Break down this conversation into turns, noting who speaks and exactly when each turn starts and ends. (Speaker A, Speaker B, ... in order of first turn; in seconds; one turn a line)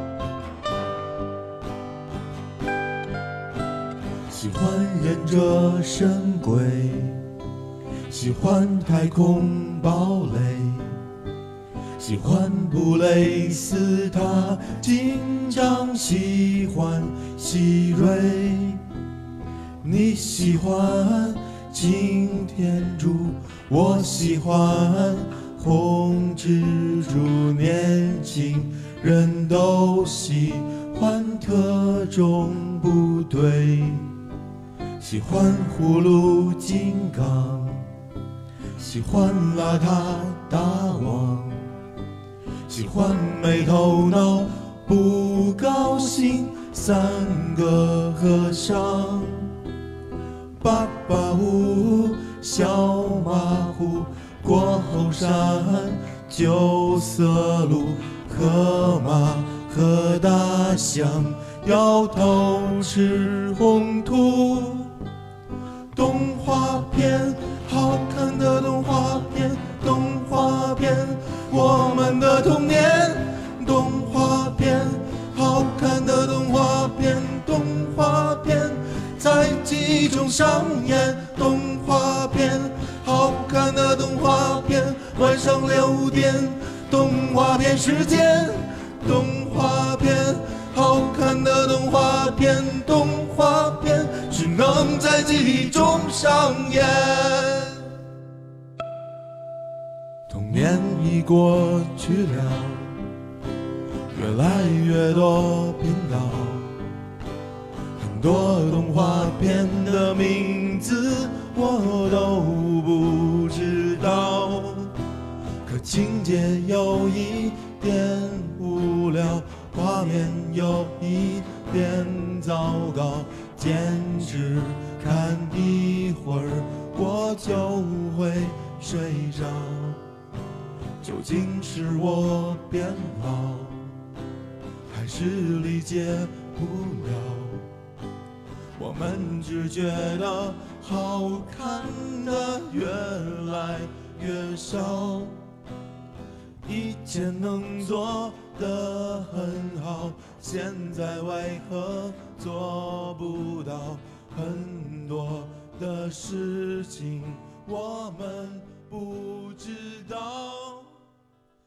Speaker A: 4.3-7.2
Speaker A: 8.1-10.9
Speaker A: 12.0-18.8
Speaker A: 19.8-34.1
Speaker A: 35.0-37.9
Speaker A: 38.8-41.7
Speaker A: 42.7-49.5
Speaker A: 50.6-64.9
Speaker A: 65.9-97.8
Speaker A: 100.3-102.9
Speaker A: 104.1-106.7
Speaker A: 108.0-114.9
Speaker A: 115.6-130.0
Speaker A: 131.0-133.9
Speaker A: 134.9-137.7
Speaker A: 138.8-145.3
Speaker A: 146.6-161.0